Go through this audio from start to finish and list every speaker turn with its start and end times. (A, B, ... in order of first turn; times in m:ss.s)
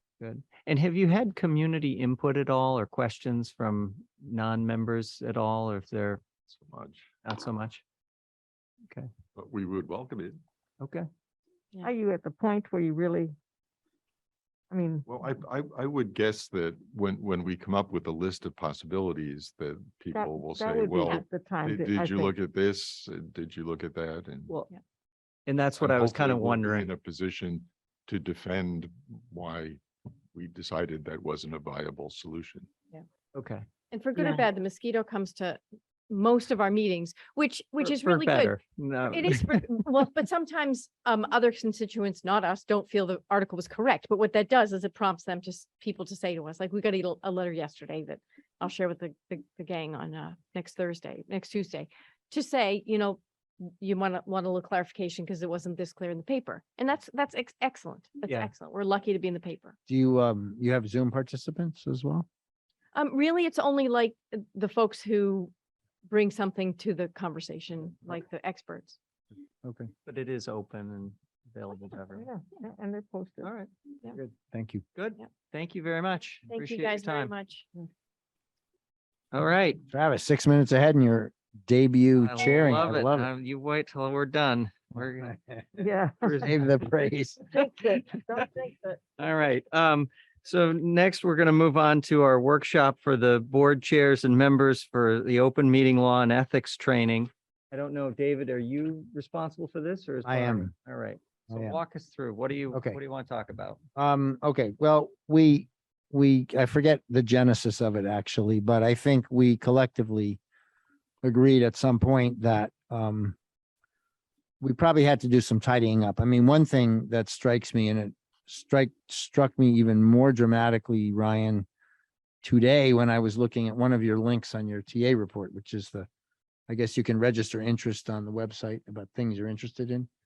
0:00.2-0:06.2 A
0:06.5-0:07.1 B
0:07.2-0:07.8 A
0:09.4-0:10.4 B
0:10.8-0:11.1 A
0:11.8-0:13.4 C
0:14.7-0:15.1 C
0:15.1-0:24.5 B
0:20.1-0:22.4 C
0:25.5-0:26.9 A
0:25.8-0:29.8 B
0:30.3-0:32.7 B
0:33.3-0:33.6 A
0:33.9-0:38.6 D
0:34.2-0:34.4 A
0:37.8-0:39.7 A
0:39.1-0:59.8 D
0:58.3-0:58.5 A
0:59.9-1:02.3 E
1:02.9-1:05.5 D
1:06.1-1:09.0 D
1:09.6-1:09.9 E
1:10.1-1:12.3 A
1:12.1-1:13.5 C
1:13.4-1:13.7 A
1:14.2-1:14.8 E
1:15.0-1:17.3 A
1:16.5-1:17.7 D
1:19.3-1:19.8 A
1:19.9-1:23.3 E
1:22.2-1:25.5 A
1:25.8-1:26.4 C
1:26.2-1:26.7 A
1:26.4-1:27.4 E
1:27.5-1:29.0 C
1:29.2-1:43.8 A
1:40.2-1:40.7 E
1:41.5-1:41.8 E
1:42.7-1:43.0 E
1:44.0-1:50.4 E
1:51.2-1:53.4 E
1:54.6-2:01.7 E
2:02.4-2:06.1 E
2:06.7-2:10.1 E